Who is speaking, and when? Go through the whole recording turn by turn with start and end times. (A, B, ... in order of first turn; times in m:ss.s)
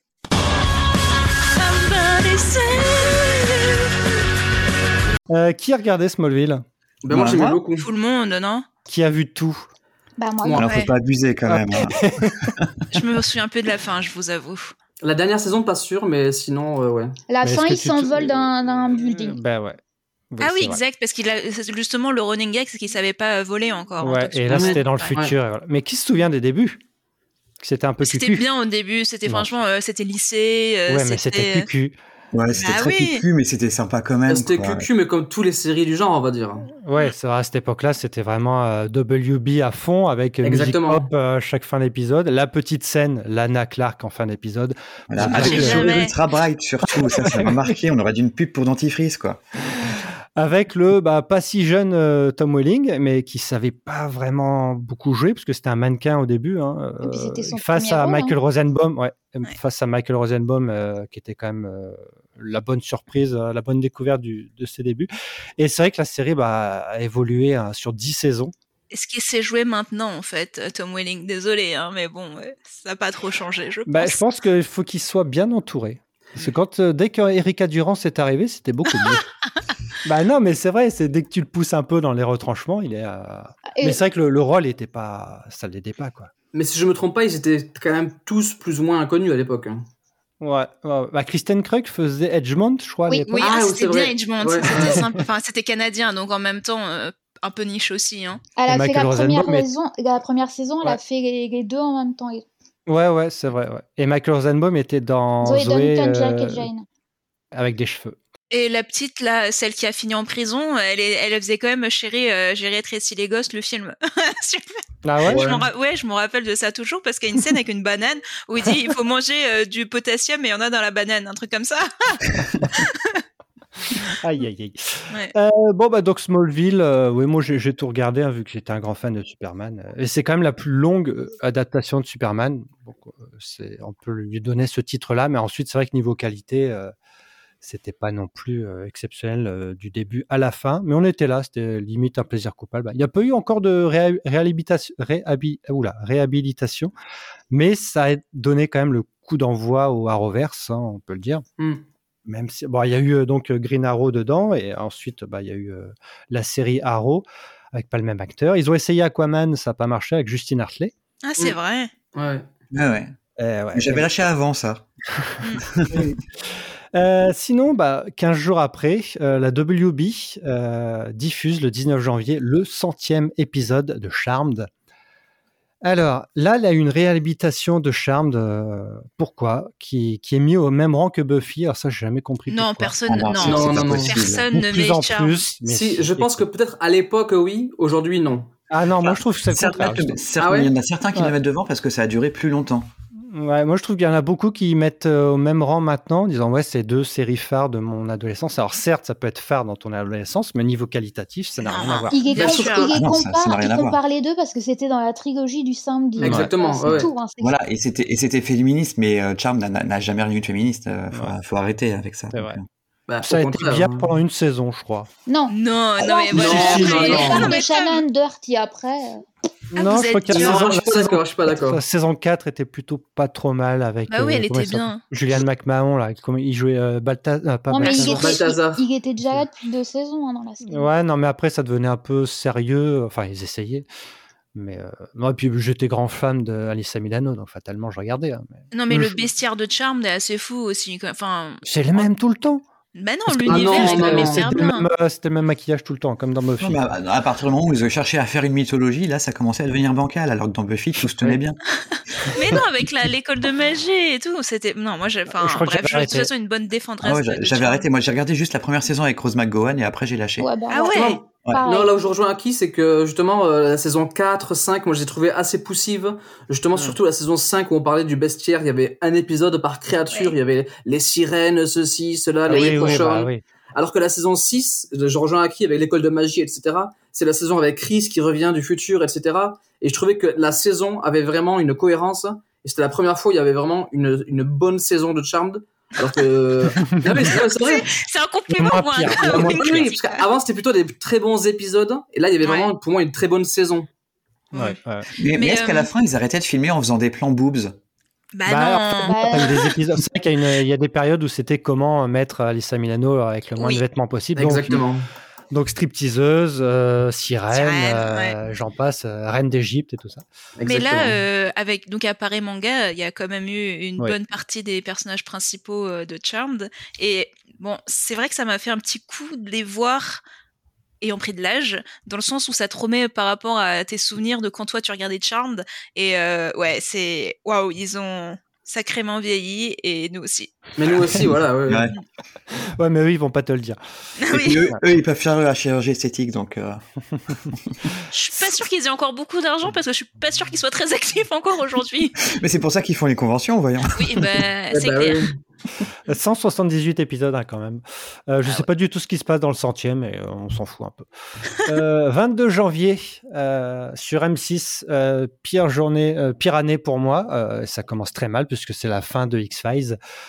0:01.6-0:03.9 A
0:05.3-0:06.6 B
0:07.0-0:07.9 C
0:07.1-0:07.6 D
0:07.8-0:08.7 A
0:08.9-0:09.7 B
0:10.2-0:10.6 E
0:10.5-0:11.9 D
0:10.6-0:10.9 A
0:11.5-0:12.4 B
0:12.9-0:14.7 A
0:15.0-0:17.2 C
0:17.3-0:19.4 E
0:17.4-0:19.8 B
0:20.3-0:20.8 B
0:20.4-0:25.1 A
0:24.0-0:26.8 B
0:24.5-0:25.3 C
0:27.6-0:28.4 B
0:28.0-0:31.7 A
0:30.9-0:31.9 B
0:32.3-0:34.9 D
0:32.5-0:33.2 A
0:34.3-0:36.7 C
0:36.8-0:45.9 B
0:40.4-0:41.1 C
0:45.1-0:49.4 D
0:45.2-0:46.1 A
0:47.2-0:47.6 B
0:50.4-1:08.5 B
0:57.0-0:58.4 E
1:08.9-1:14.2 A
1:13.9-1:19.2 B
1:20.0-1:26.3 B
1:23.7-1:24.0 E
1:26.5-1:29.8 C
1:30.4-1:33.5 B
1:33.3-1:38.4 A
1:33.4-1:35.0 C
1:34.6-1:35.2 B
1:38.6-1:42.4 E
1:38.7-1:39.7 B
1:42.9-1:46.7 B
1:45.4-1:46.8 E
1:47.5-1:48.2 B
1:48.5-2:03.2 A
1:55.0-1:55.6 B
1:55.2-1:55.7 C
2:04.0-2:16.9 B
2:17.6-2:26.9 B
2:27.5-2:31.4 B
2:31.6-2:31.8 C
2:32.2-2:40.9 B
2:41.2-2:41.9 A
2:42.1-2:42.7 C
2:42.7-2:43.1 D
2:43.4-2:44.1 B
2:43.7-2:44.8 D
2:45.7-2:46.0 D
2:45.9-2:46.2 B
2:46.9-2:54.7 B
2:55.8-3:03.0 B
3:02.5-3:05.5 A
3:03.1-3:04.5 D
3:03.4-3:04.1 C
3:04.5-3:06.4 B
3:05.6-3:08.5 C
3:08.7-3:10.2 B
3:09.0-3:12.9 D
3:10.4-3:10.7 C
3:13.3-3:22.2 B
3:21.6-3:22.9 A
3:22.1-3:27.5 E
3:22.3-3:22.8 C
3:22.9-3:24.0 D
3:26.2-3:27.1 C
3:26.2-3:26.5 B
3:27.4-3:32.6 D
3:32.3-3:32.6 B
3:33.1-3:34.1 C
3:33.2-3:35.1 B
3:35.3-3:39.2 E
3:35.5-3:38.0 A
3:36.3-3:37.5 C
3:36.5-3:37.3 B
3:39.7-3:48.4 B
3:39.7-3:40.7 A
3:40.3-3:41.8 C
3:44.1-3:45.0 A
3:47.7-3:50.9 E
3:47.9-3:48.8 C
3:50.6-3:53.8 B
3:54.5-3:59.2 B
3:58.7-4:02.1 A
4:01.6-4:02.6 B
4:02.9-4:04.9 A
4:03.3-4:06.8 B
4:03.5-4:04.5 C
4:06.6-4:11.6 D
4:12.3-4:17.8 A
4:15.3-4:16.3 B
4:17.0-4:20.5 D
4:20.4-4:22.0 E
4:20.7-4:21.2 A
4:20.9-4:47.9 C
4:32.5-4:33.4 B
4:32.5-4:33.0 A
4:46.9-4:47.3 B
4:47.4-4:50.2 A
4:48.5-4:49.9 B
4:49.1-4:53.9 C
4:52.4-4:52.7 A
4:54.5-4:55.1 B
4:55.2-4:57.8 D
4:55.3-4:55.9 A
4:58.3-4:59.6 A
4:58.4-5:04.8 B
4:59.0-4:59.8 E
5:03.6-5:03.8 A
5:04.4-5:05.1 C
5:05.5-5:10.2 B
5:07.5-5:08.3 A
5:10.6-5:11.2 C
5:10.6-5:20.2 A
5:21.0-5:30.7 A
5:30.8-5:31.9 C
5:31.7-5:31.9 D
5:32.5-5:33.8 B
5:34.2-5:34.7 A
5:34.3-5:37.7 D
5:38.1-5:42.2 A
5:42.3-5:44.3 D
5:43.9-5:45.3 A
5:44.7-5:45.4 C
5:46.1-5:51.1 B
5:51.6-6:00.0 B